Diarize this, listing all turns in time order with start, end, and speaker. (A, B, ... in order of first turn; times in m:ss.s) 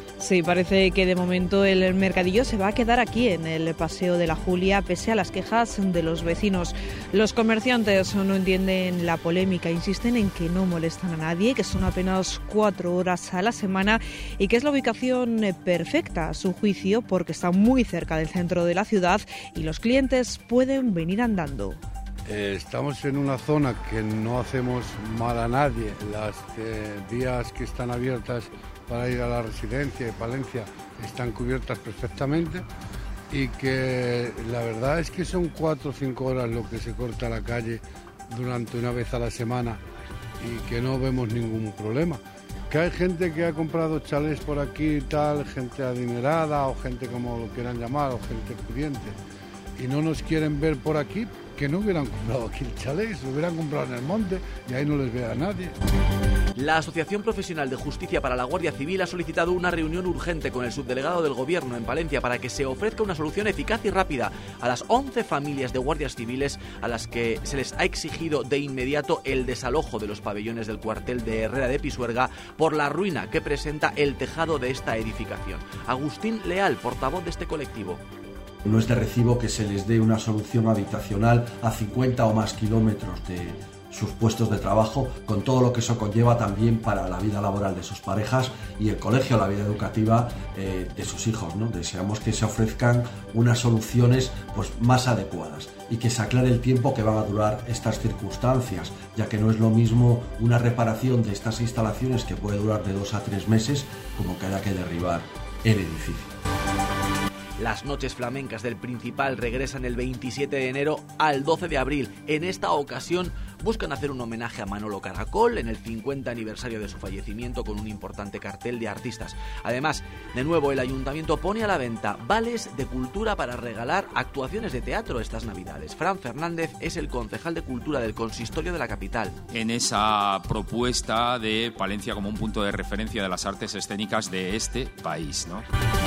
0:00.2-0:21.8 A
0:22.2-0:32.6 B
0:33.3-0:39.8 B
0:40.4-0:49.2 B
0:49.8-0:55.7 B
0:56.6-1:18.0 C
1:18.6-1:46.3 D
1:47.6-2:09.3 C
2:09.6-2:15.6 E